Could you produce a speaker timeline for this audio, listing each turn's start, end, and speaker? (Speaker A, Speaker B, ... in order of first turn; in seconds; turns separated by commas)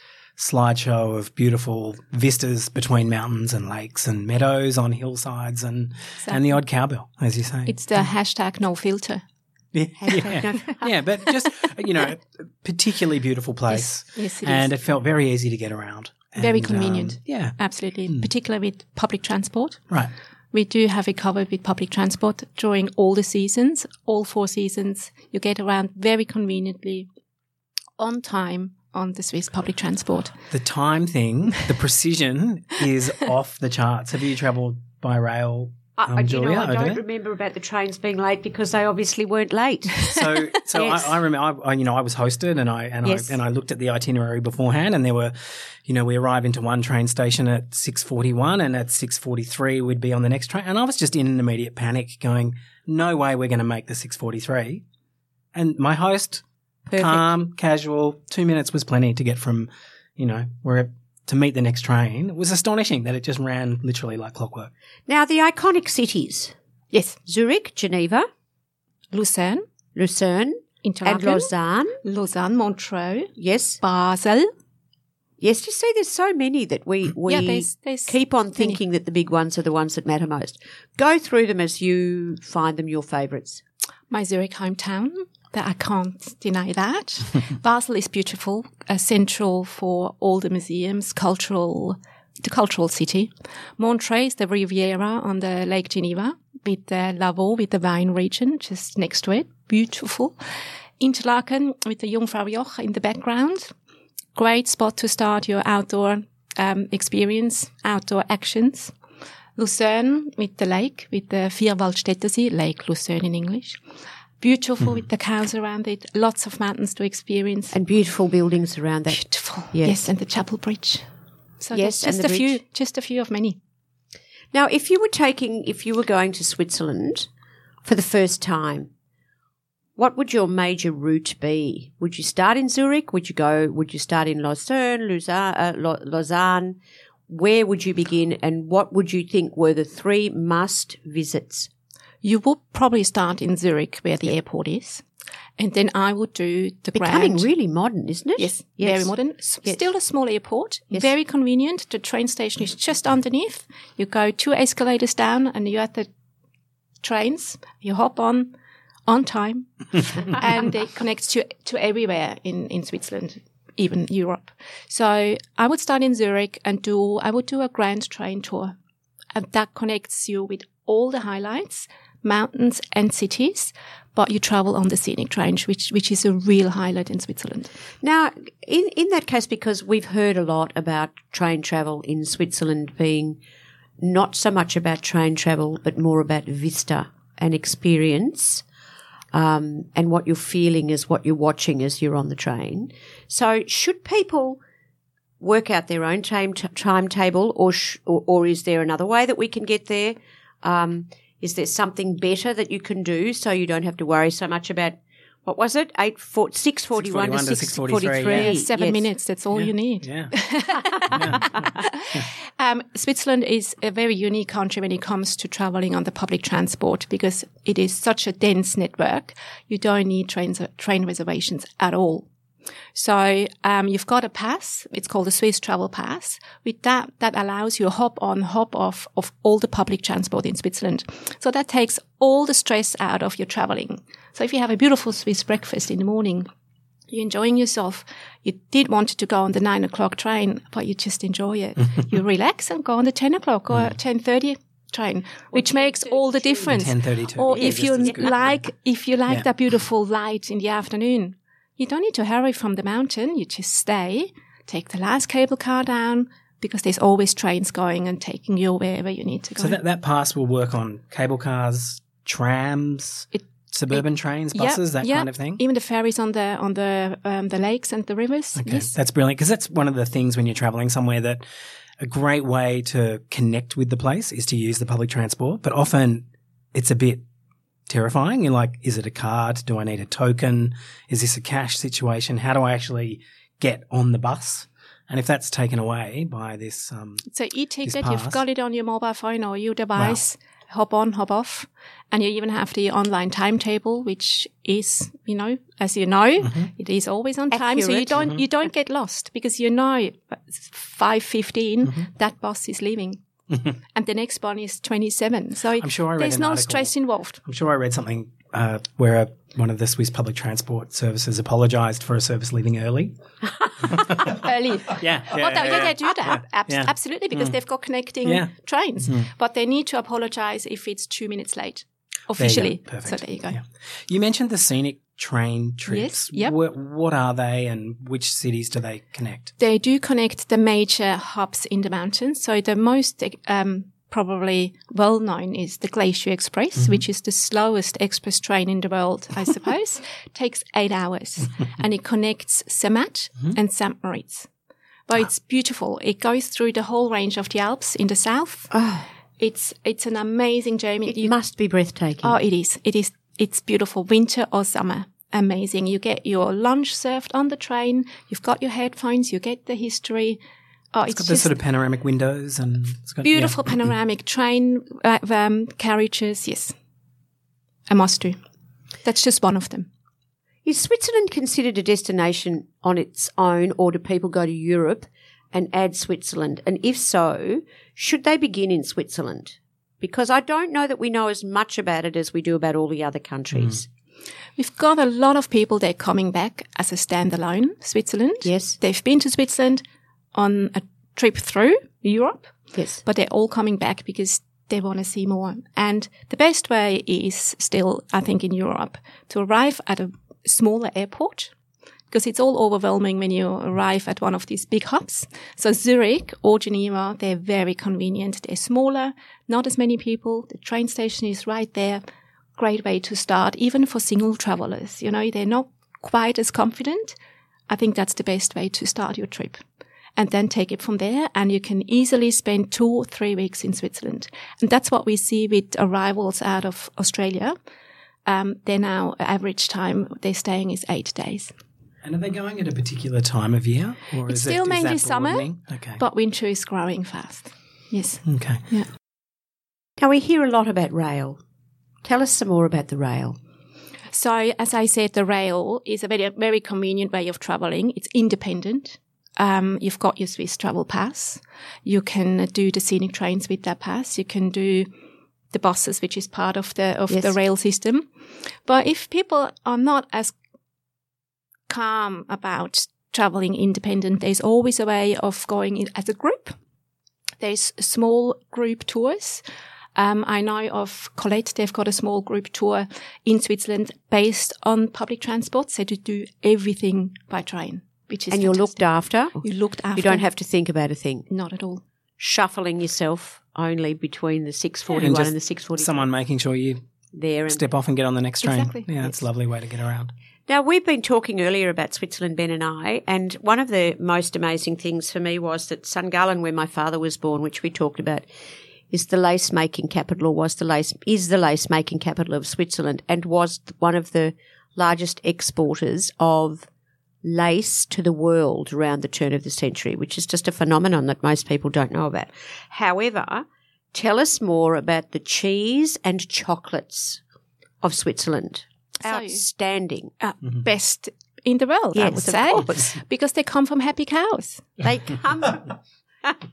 Speaker A: 0.4-8.0, Speaker B: 6.2-6.6, Speaker B: 7.7-9.2, Speaker A: 9.7-17.6, Speaker C: 10.0-10.9, Speaker B: 13.7-14.7, Speaker B: 16.4-19.8, Speaker B: 20.5-27.1, Speaker B: 28.0-30.4, Speaker A: 30.5-37.0, Speaker C: 36.0-40.1, Speaker A: 40.1-54.8, Speaker C: 40.8-41.1, Speaker C: 43.0-43.4, Speaker A: 55.5-56.4, Speaker C: 56.9-57.2, Speaker A: 57.0-64.7, Speaker C: 65.1-66.5, Speaker B: 66.9-67.2, Speaker C: 67.3-68.3, Speaker B: 69.1-69.6, Speaker C: 70.0-72.0, Speaker B: 70.8-71.5, Speaker B: 72.0-74.5, Speaker C: 73.4-73.8, Speaker C: 75.4-83.6, Speaker B: 77.3-78.8, Speaker B: 84.1-100.4, Speaker B: 101.0-103.7, Speaker B: 104.4-108.9, Speaker B: 109.6-113.8, Speaker B: 114.4-117.7, Speaker C: 117.7-120.1, Speaker B: 119.1-121.1, Speaker B: 121.6-123.6, Speaker C: 121.7-122.6, Speaker C: 124.5-127.3, Speaker C: 127.8-128.9, Speaker C: 130.0-136.8, Speaker C: 137.3-141.7, Speaker B: 142.2-145.0, Speaker B: 145.6-147.5, Speaker C: 146.9-149.1, Speaker B: 148.4-156.1, Speaker B: 157.0-158.5, Speaker B: 159.1-168.8, Speaker B: 169.3-177.7, Speaker C: 178.0-183.4, Speaker C: 184.0-188.6, Speaker C: 189.3-194.6, Speaker C: 195.4-209.1, Speaker A: 207.0-208.6, Speaker B: 208.0-222.3, Speaker A: 209.5-210.3, Speaker A: 211.1-212.2, Speaker B: 222.9-236.5, Speaker B: 237.1-259.8, Speaker C: 245.5-246.7, Speaker A: 246.7-248.6, Speaker A: 259.6-265.6, Speaker B: 263.3-268.9, Speaker A: 268.6-271.4, Speaker A: 272.0-277.2, Speaker A: 277.9-287.2, Speaker B: 287.3-303.2, Speaker A: 287.8-288.4, Speaker C: 297.5-298.4, Speaker B: 303.9-307.4, Speaker A: 305.8-306.9, Speaker A: 307.5-313.2, Speaker A: 313.8-317.6, Speaker B: 314.2-323.6, Speaker A: 318.2-318.5, Speaker A: 322.4-329.5, Speaker B: 325.9-326.6, Speaker B: 329.6-344.5, Speaker B: 345.1-348.7, Speaker C: 348.7-349.1, Speaker B: 349.4-351.3, Speaker C: 351.1-352.4, Speaker B: 352.2-360.4, Speaker B: 360.9-361.5, Speaker A: 361.1-363.9, Speaker B: 363.2-366.8, Speaker B: 367.9-368.4, Speaker B: 369.0-369.9, Speaker C: 370.6-383.9, Speaker B: 384.6-389.8, Speaker C: 388.4-388.8, Speaker B: 390.3-401.5, Speaker C: 392.8-393.0, Speaker B: 402.1-412.0, Speaker B: 412.6-417.1, Speaker B: 417.7-419.6, Speaker B: 420.2-427.6, Speaker B: 428.3-431.5, Speaker A: 432.0-436.0, Speaker B: 434.3-438.9, Speaker A: 438.3-438.6, Speaker C: 440.0-441.4, Speaker C: 442.0-443.4, Speaker B: 444.1-454.9, Speaker B: 455.5-458.1, Speaker B: 458.7-460.4, Speaker B: 461.7-466.6, Speaker B: 467.4-469.4, Speaker B: 470.0-478.8, Speaker C: 478.3-479.4, Speaker B: 479.4-480.2, Speaker C: 479.9-481.3, Speaker B: 481.3-481.8, Speaker C: 482.2-486.1, Speaker A: 485.0-486.8, Speaker C: 487.1-487.6, Speaker A: 487.5-490.1, Speaker B: 488.4-489.1, Speaker C: 490.5-498.3, Speaker C: 498.9-506.7, Speaker C: 507.2-517.2, Speaker C: 517.8-520.1, Speaker B: 519.0-519.4, Speaker B: 520.2-524.8, Speaker C: 521.9-522.9, Speaker C: 524.8-525.7